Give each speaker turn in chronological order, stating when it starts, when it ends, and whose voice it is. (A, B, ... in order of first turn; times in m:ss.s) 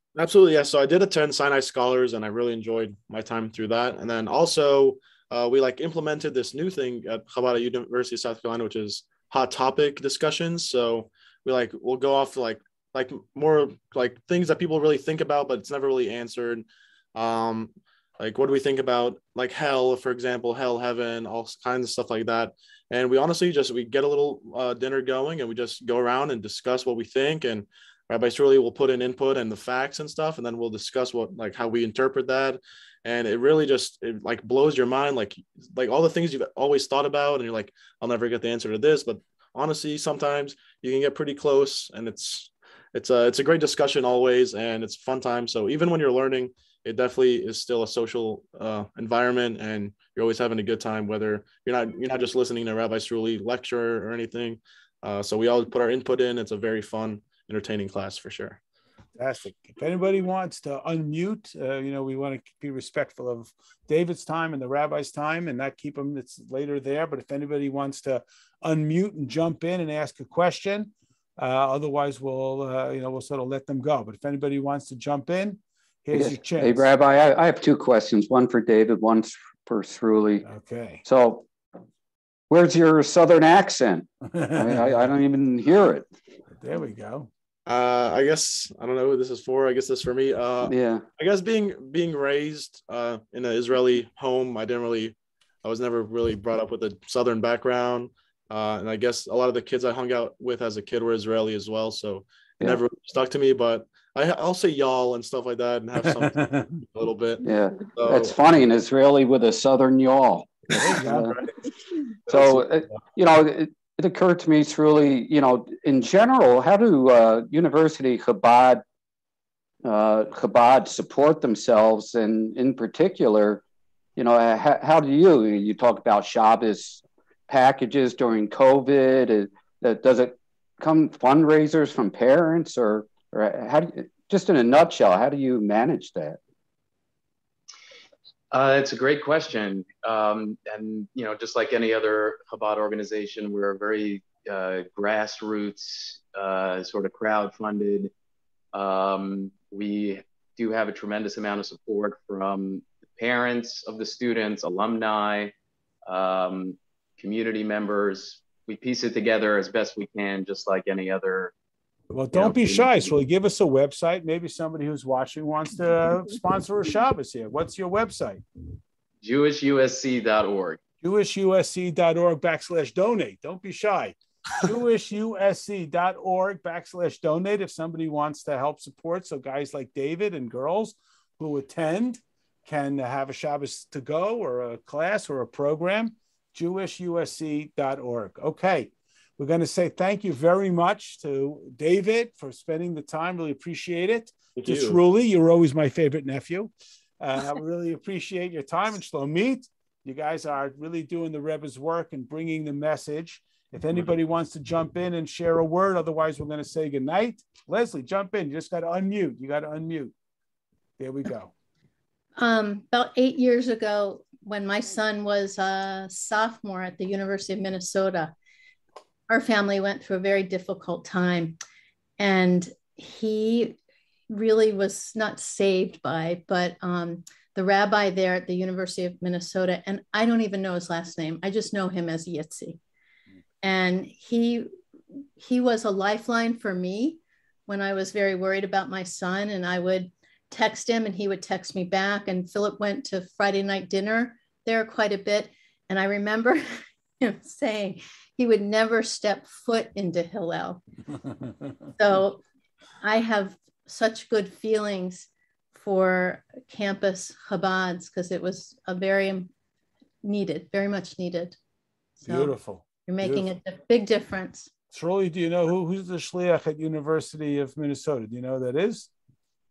0:00.1-0:58.6 A
0:59.2-1:16.9 B
1:16.1-1:20.4 C
1:20.4-1:21.0 B
1:21.0-1:21.5 C
1:22.5-1:26.1 C
1:24.3-1:25.0 B
1:26.6-1:27.3 B
1:27.6-1:48.4 A
1:30.6-1:31.0 C
1:46.0-1:46.8 B
1:47.4-1:51.4 C
1:50.8-1:51.3 B
1:50.9-1:51.4 A
1:52.3-1:58.8 C
1:52.3-1:52.6 A
1:59.8-2:03.6 C
2:04.2-2:16.4 C
2:18.5-2:28.1 D
2:28.7-2:35.5 D
2:36.1-2:41.5 D
2:42.1-2:48.4 B
2:42.3-2:43.1 D
2:49.2-2:50.8 D
2:51.0-3:30.1 B
3:14.6-3:15.0 A
3:31.0-3:31.5 B
3:32.4-3:38.3 E
3:39.3-3:41.6 E
3:42.2-3:43.8 E
3:44.3-3:52.8 E
3:53.6-3:54.7 E
3:55.4-4:10.8 E
4:11.9-4:12.4 E
4:13.0-4:19.5 E
4:20.2-4:21.6 E
4:22.2-4:23.5 B
4:22.2-4:24.7 E
4:24.9-4:29.1 B